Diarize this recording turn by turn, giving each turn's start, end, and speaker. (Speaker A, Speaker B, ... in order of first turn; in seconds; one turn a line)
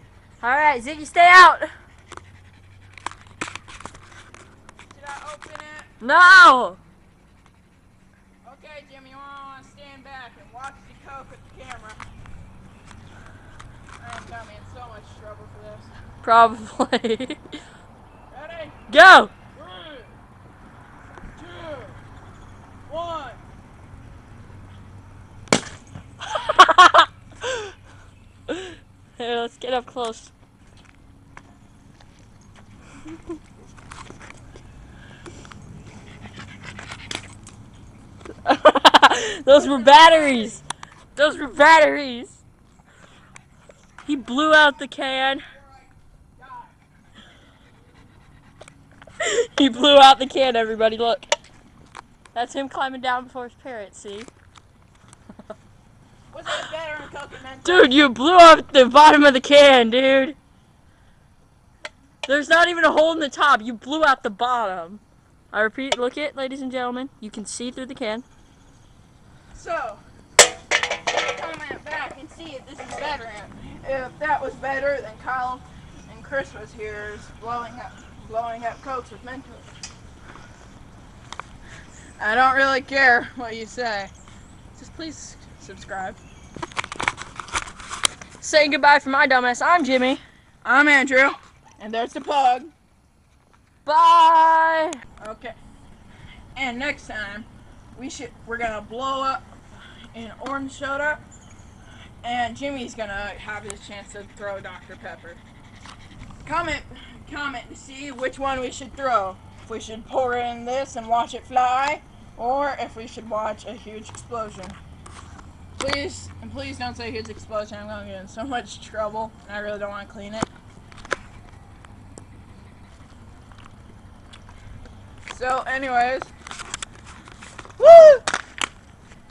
Speaker A: 0.4-1.7
Speaker B: 4.9-5.9
Speaker A: 6.0-6.8
Speaker B: 8.4-12.0
Speaker B: 14.0-15.9
Speaker A: 16.2-17.4
Speaker B: 18.3-18.8
Speaker A: 18.9-19.3
Speaker B: 19.5-20.1
Speaker B: 21.3-22.0
Speaker B: 22.9-23.4
Speaker A: 26.3-27.7
Speaker A: 28.5-30.3
Speaker A: 38.4-40.6
Speaker B: 39.5-40.6
Speaker A: 41.1-42.4
Speaker A: 44.0-45.5
Speaker B: 45.5-46.7
Speaker A: 49.2-51.3
Speaker A: 52.3-54.3
Speaker B: 56.3-58.0
Speaker A: 57.6-60.4
Speaker A: 62.2-65.0
Speaker A: 65.5-68.2
Speaker B: 69.5-70.0
Speaker B: 71.2-79.7
Speaker B: 82.2-84.1
Speaker B: 84.7-86.2
Speaker A: 88.4-90.2
Speaker B: 90.6-92.7
Speaker A: 93.8-95.0
Speaker B: 95.2-95.5
Speaker B: 96.5-101.2
Speaker B: 102.2-105.4
Speaker B: 106.4-114.8
Speaker B: 115.8-120.5
Speaker B: 125.3-126.3
Speaker B: 127.8-128.2